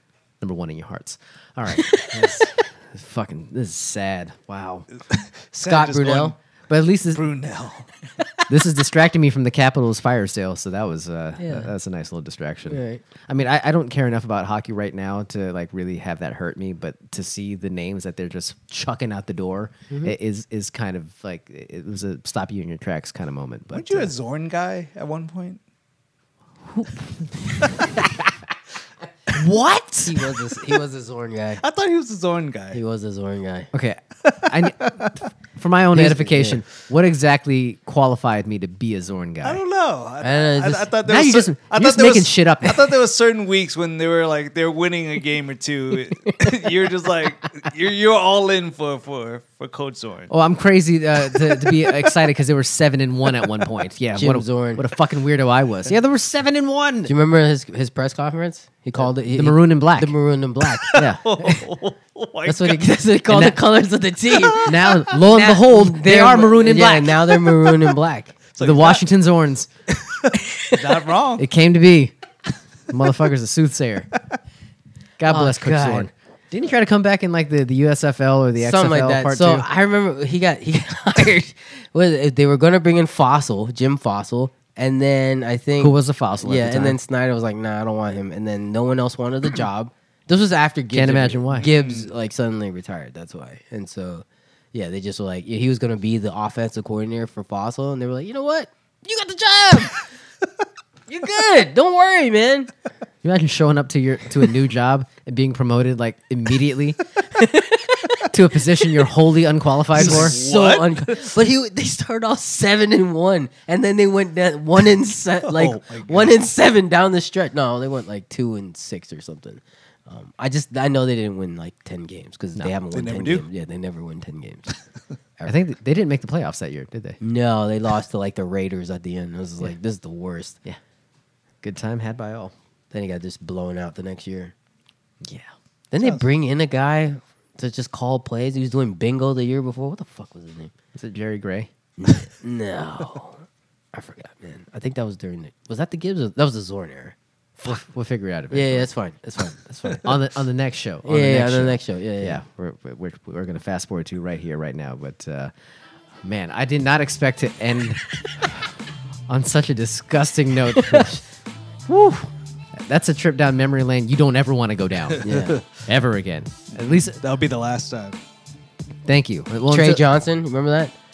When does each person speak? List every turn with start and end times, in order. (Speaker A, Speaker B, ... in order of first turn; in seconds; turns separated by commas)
Speaker A: 0.4-4.9, Speaker B: 1.8-2.5, Speaker C: 5.1-6.4, Speaker B: 5.6-6.3, Speaker A: 6.7-7.2, Speaker C: 7.1-7.9, Speaker A: 8.5-24.1, Speaker B: 11.4-11.7, Speaker B: 12.7-13.0, Speaker C: 23.7-25.6, Speaker A: 26.7-27.9, Speaker C: 27.6-27.9, Speaker A: 29.4-30.2, Speaker B: 30.1-31.6, Speaker C: 31.6-32.8, Speaker B: 32.7-33.7, Speaker A: 33.7-35.0, Speaker C: 34.3-35.1, Speaker A: 35.6-39.6, Speaker B: 35.9-36.6, Speaker C: 39.4-50.3, Speaker B: 40.2-40.9, Speaker A: 41.0-42.9, Speaker A: 50.3-57.1, Speaker B: 54.2-54.9, Speaker B: 57.1-61.0, Speaker A: 59.3-60.1, Speaker C: 60.8-62.9, Speaker A: 60.9-61.5, Speaker B: 62.5-68.4, Speaker A: 63.3-63.6, Speaker C: 64.3-65.0, Speaker A: 64.6-67.3, Speaker C: 68.5-69.0, Speaker A: 68.6-69.7, Speaker C: 70.0-71.5, Speaker A: 71.4-72.1, Speaker A: 72.9-74.1, Speaker A: 75.2-79.7, Speaker B: 75.3-76.1, Speaker B: 78.6-100.0, Speaker A: 85.8-87.0, Speaker A: 90.9-91.7, Speaker C: 91.6-92.1, Speaker B: 101.1-102.7, Speaker A: 103.2-107.0, Speaker B: 107.3-108.3, Speaker A: 108.3-110.4, Speaker B: 109.9-124.7, Speaker C: 110.0-111.2, Speaker C: 115.5-116.4, Speaker C: 122.9-123.5, Speaker A: 125.5-127.2, Speaker B: 127.2-130.6, Speaker A: 131.6-132.5, Speaker B: 132.9-134.5, Speaker A: 135.2-135.5, Speaker B: 135.9-140.7, Speaker C: 136.0-136.2, Speaker A: 140.9-141.7, Speaker B: 142.0-147.2, Speaker A: 147.6-148.9, Speaker B: 148.5-150.1, Speaker A: 149.9-155.5, Speaker B: 151.1-152.4, Speaker A: 156.2-158.5, Speaker A: 159.3-161.2, Speaker B: 160.7-161.1, Speaker A: 161.9-167.2, Speaker B: 165.2-165.6, Speaker C: 165.2-165.6, Speaker C: 166.7-168.2, Speaker A: 169.1-170.1, Speaker B: 169.7-170.9